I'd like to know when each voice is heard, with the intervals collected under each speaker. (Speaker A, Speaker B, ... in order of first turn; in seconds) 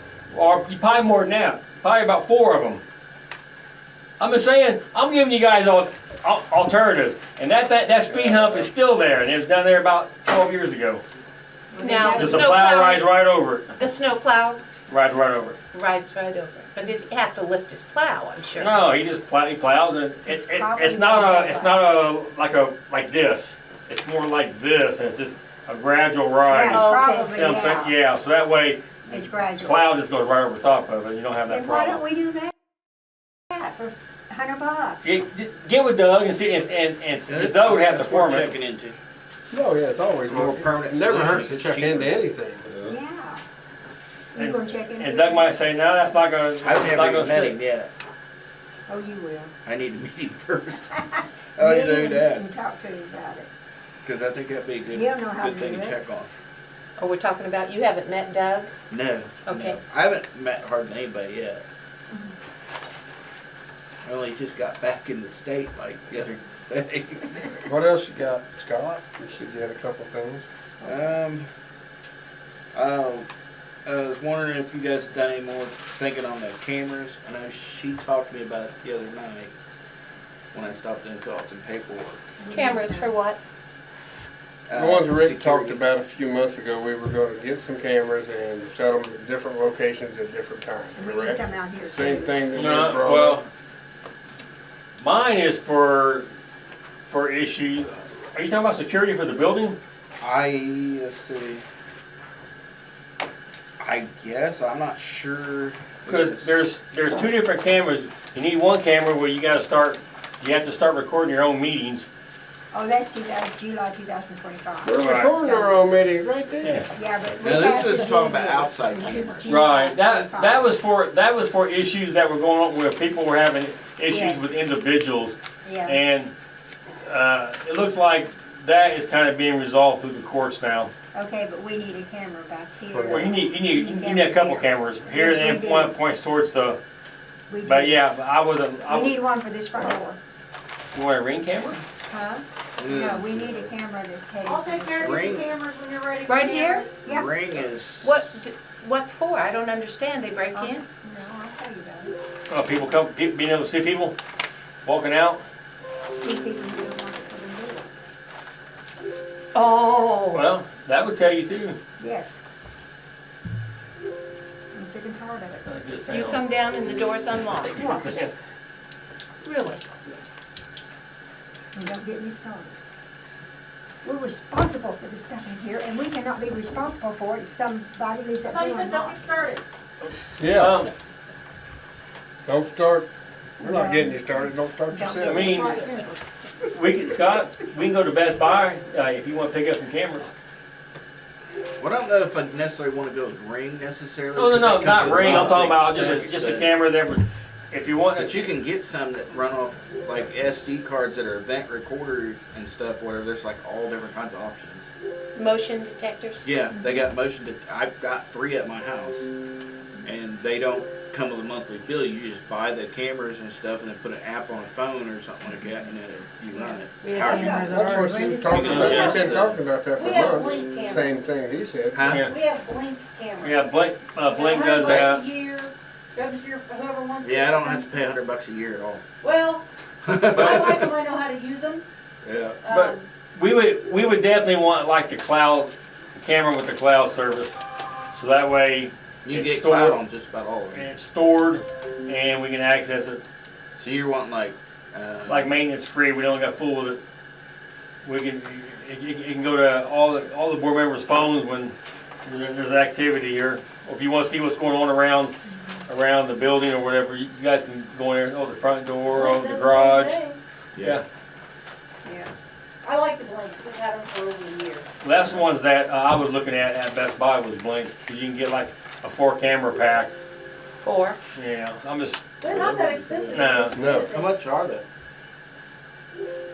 Speaker A: 0.3-2.8, 4.2-11.0, 12.0-13.9, 14.9-15.6, 18.6-28.8, 29.6-32.0, 35.0-38.5, 44.4-47.6, 92.5-93.5, 95.0-96.3, 97.1-99.8, 106.1-112.1, 114.9-115.3, 116.6-116.9, 119.5-126.3, 127.0-130.9, 133.1-136.8, 137.7-139.2, 140.9-141.8, 152.5-154.2, 154.8-155.4, 160.3-161.8, 165.7-166.5, 167.4-168.3, 180.0-180.9, 185.2-185.9, 186.7-190.3, 194.3-198.5, 218.6-219.1, 222.1-222.3, 223.4-225.2, 232.7-237.6, 238.1-240.0, 240.7-243.2, 245.3-247.0, 248.0-251.7, 252.2-255.3, 255.9-260.2, 265.0-270.1, 271.4-272.3, 273.3-273.9
Speaker B: 8.1-8.7, 39.5-42.7, 67.7-70.5, 84.7-93.4, 114.8-116.8, 132.9-133.3, 180.4-180.8, 182.5-183.1, 183.6-185.7, 217.5-222.2, 273.6-274.1
Speaker C: 11.7-12.6, 20.3-21.9, 26.5-27.9, 29.1-29.8, 31.5-32.5, 33.5-35.1, 42.9-43.4, 44.3-45.5, 48.9-49.5, 51.6-53.5, 54.9-56.0, 82.4-83.2, 91.0-92.6, 112.7-115.8, 116.9-120.8, 124.1-124.5, 125.6-126.0, 131.1-135.9, 137.5-138.0, 138.9-140.2, 142.1-145.3, 147.0-147.3, 150.5-152.1, 156.2-157.9, 162.0-162.4, 164.7-165.6, 171.8-172.8, 174.0-179.2, 183.6-186.2, 216.5-219.0, 255.5-255.8
Speaker D: 11.8-13.0, 13.8-14.6, 15.7-18.7, 26.7-27.4, 57.0-58.7, 59.5-59.8, 82.5-83.4, 146.2-146.9, 148.0-150.8, 159.5-160.4, 166.1-168.1, 169.4-170.4, 205.3-206.5, 217.0-218.5, 262.1-262.3, 263.7-264.8, 270.8-271.2
Speaker E: 37.3-39.0, 40.3-42.1, 46.6-47.9, 49.6-50.9, 51.6-52.5, 54.0-56.3, 58.9-61.6, 64.0-67.6, 70.8-71.5, 72.7-73.3, 73.8-79.5, 80.5-82.2, 84.7-85.8, 100.2-101.6, 103.8-106.5, 117.4-119.7, 142.8-143.4, 145.0-145.4, 147.0-148.4, 191.8-196.7, 198.2-204.8, 206.4-209.3, 210.0-217.5, 218.5-219.6, 221.9-222.3, 224.8-225.1, 227.2-229.0, 230.1-230.9, 232.2-232.7, 239.2-240.9, 243.8-245.5, 260.8-261.0, 274.1-274.8
Speaker F: 144.5-146.9, 178.5-179.6, 218.9-219.2, 219.9-221.0, 222.3-223.6, 224.3-227.8, 229.2-229.6, 230.4-231.8, 232.7-233.0, 259.1-260.4, 262.9-264.8, 272.4-274.3